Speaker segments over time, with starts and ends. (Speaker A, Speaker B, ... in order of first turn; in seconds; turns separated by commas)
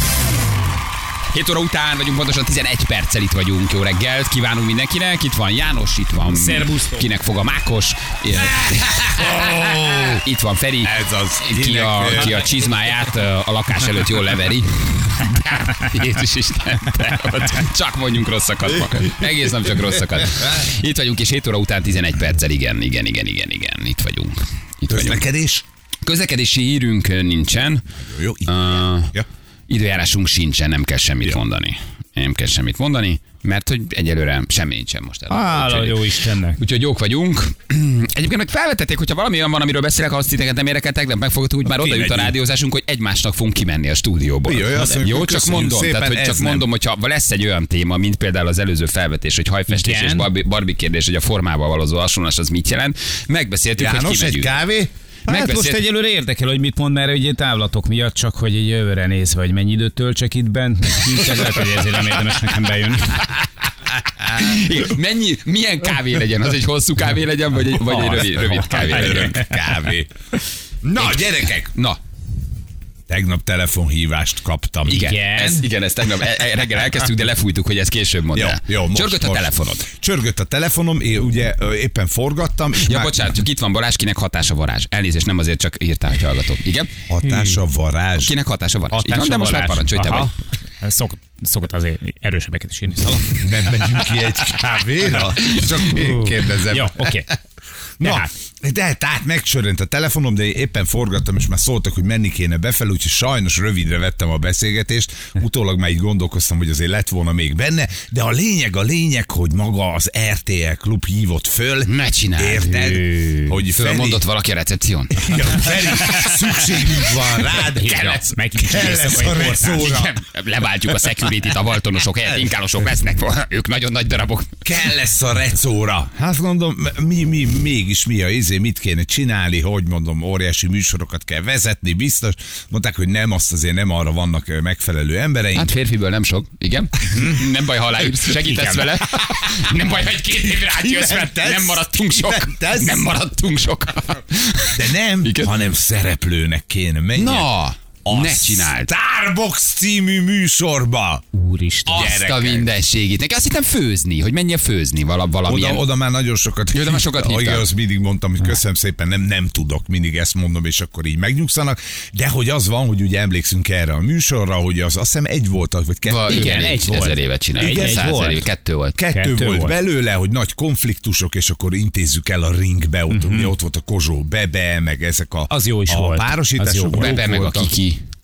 Speaker A: 1.3-25.3, Speaker B: 6.3-7.1, Speaker C: 8.3-10.2, Speaker C: 10.8-12.5, Speaker C: 24.9-25.6, Speaker A: 26.0-27.8, Speaker C: 28.0-29.3, Speaker A: 28.5-54.6, Speaker B: 35.3-36.6, Speaker C: 41.7-42.4, Speaker C: 44.4-46.7, Speaker B: 49.7-50.3, Speaker C: 53.8-54.9, Speaker A: 55.3-55.9, Speaker B: 55.3-63.3, Speaker A: 64.2-69.4, Speaker B: 67.8-69.5, Speaker C: 68.5-70.1, Speaker C: 70.8-71.7, Speaker A: 71.0-72.0, Speaker C: 73.1-75.1, Speaker A: 74.9-79.9, Speaker B: 74.9-75.7, Speaker C: 78.3-83.3, Speaker A: 82.8-87.0, Speaker C: 87.1-88.3, Speaker B: 87.2-87.6, Speaker A: 88.2-90.3, Speaker B: 88.9-94.1, Speaker C: 93.2-97.2, Speaker A: 95.2-95.8, Speaker B: 95.9-97.3, Speaker C: 98.0-114.3, Speaker B: 98.0-98.3, Speaker A: 111.9-112.8, Speaker B: 112.7-113.6, Speaker A: 113.7-124.6, Speaker C: 115.1-120.2, Speaker B: 117.7-119.9, Speaker C: 124.7-135.8, Speaker A: 135.5-145.6, Speaker B: 138.4-138.8, Speaker C: 140.5-143.1, Speaker C: 144.7-147.5, Speaker A: 147.2-148.9, Speaker C: 148.1-151.2, Speaker B: 151.3-152.2, Speaker C: 151.9-152.7, Speaker A: 151.9-155.9, Speaker C: 155.4-166.8, Speaker A: 156.7-157.7, Speaker A: 166.1-169.0, Speaker B: 166.3-168.5, Speaker C: 167.6-168.4, Speaker C: 168.9-177.8, Speaker B: 169.1-169.8, Speaker B: 173.1-173.6, Speaker B: 175.5-177.2, Speaker A: 176.9-178.0